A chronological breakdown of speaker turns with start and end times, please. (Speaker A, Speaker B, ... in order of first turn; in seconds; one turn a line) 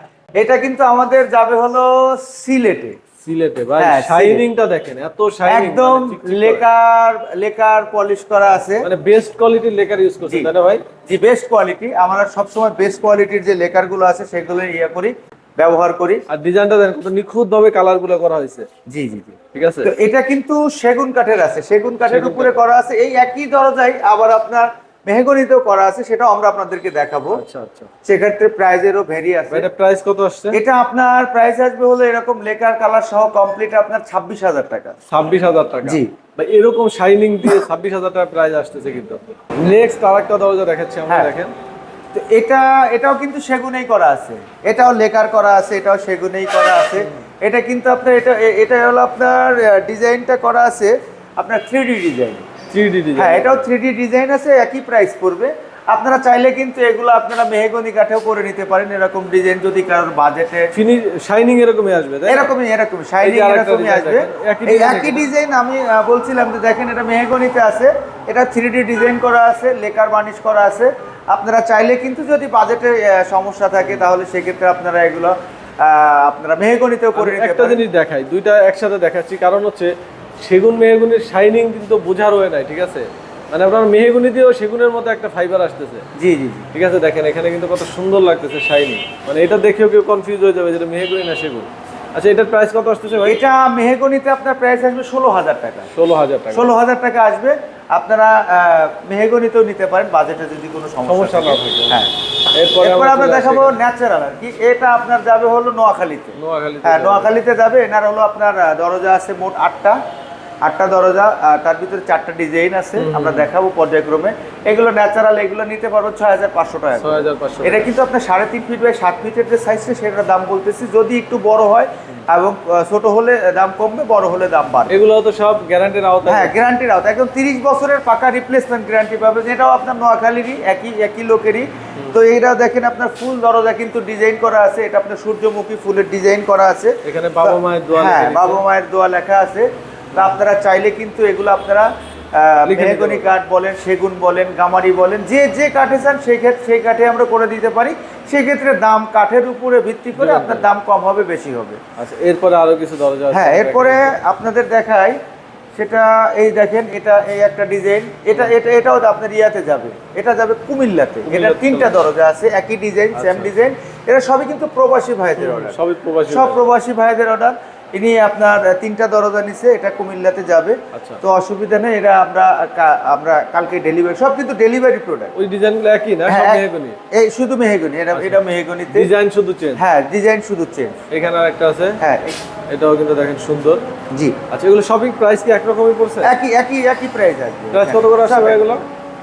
Speaker A: 0.4-3.0
Speaker B: 3.2-6.6
Speaker A: 3.8-4.4
Speaker A: 5.4-8.9
Speaker B: 8.8-10.8
Speaker A: 11.1-16.2
Speaker B: 16.3-18.7
Speaker A: 18.9-27.4
Speaker B: 19.5-19.9
Speaker B: 22.0-22.6
Speaker B: 27.3-27.9
Speaker A: 28.0-29.7
Speaker B: 29.5-30.6
Speaker A: 30.5-35.0
Speaker B: 35.1-41.5
Speaker A: 35.8-36.1
Speaker A: 42.1-52.5
Speaker B: 47.0-47.2
Speaker B: 52.7-53.6
Speaker A: 53.1-60.7
Speaker B: 60.7-62.5
Speaker A: 62.2-77.8
Speaker B: 63.2-65.3
Speaker B: 73.8-74.1
Speaker B: 77.1-86.0
Speaker A: 86.2-86.7
Speaker B: 86.7-93.4
Speaker A: 93.2-95.9
Speaker B: 95.9-96.7
Speaker A: 96.5-102.1
Speaker B: 101.1-102.0
Speaker B: 102.5-103.7
Speaker A: 102.7-110.0
Speaker B: 106.3-107.3
Speaker A: 110.6-124.9
Speaker B: 113.0-113.5
Speaker B: 117.0-117.9
Speaker B: 124.9-126.5
Speaker A: 126.2-151.8
Speaker B: 137.0-138.6
Speaker B: 142.7-143.3
Speaker B: 150.2-150.7
Speaker B: 152.0-154.2
Speaker A: 153.3-155.2
Speaker A: 155.8-165.8
Speaker B: 161.2-162.0
Speaker B: 163.1-163.5
Speaker B: 165.4-166.6
Speaker A: 166.3-175.3
Speaker B: 170.9-171.2
Speaker B: 175.3-177.0
Speaker A: 176.3-179.1
Speaker B: 178.1-179.8
Speaker A: 179.8-181.0
Speaker B: 181.1-182.0
Speaker A: 182.0-182.4
Speaker B: 182.7-183.8
Speaker A: 184.1-184.4
Speaker B: 184.5-186.3
Speaker A: 186.2-188.8
Speaker B: 187.7-188.8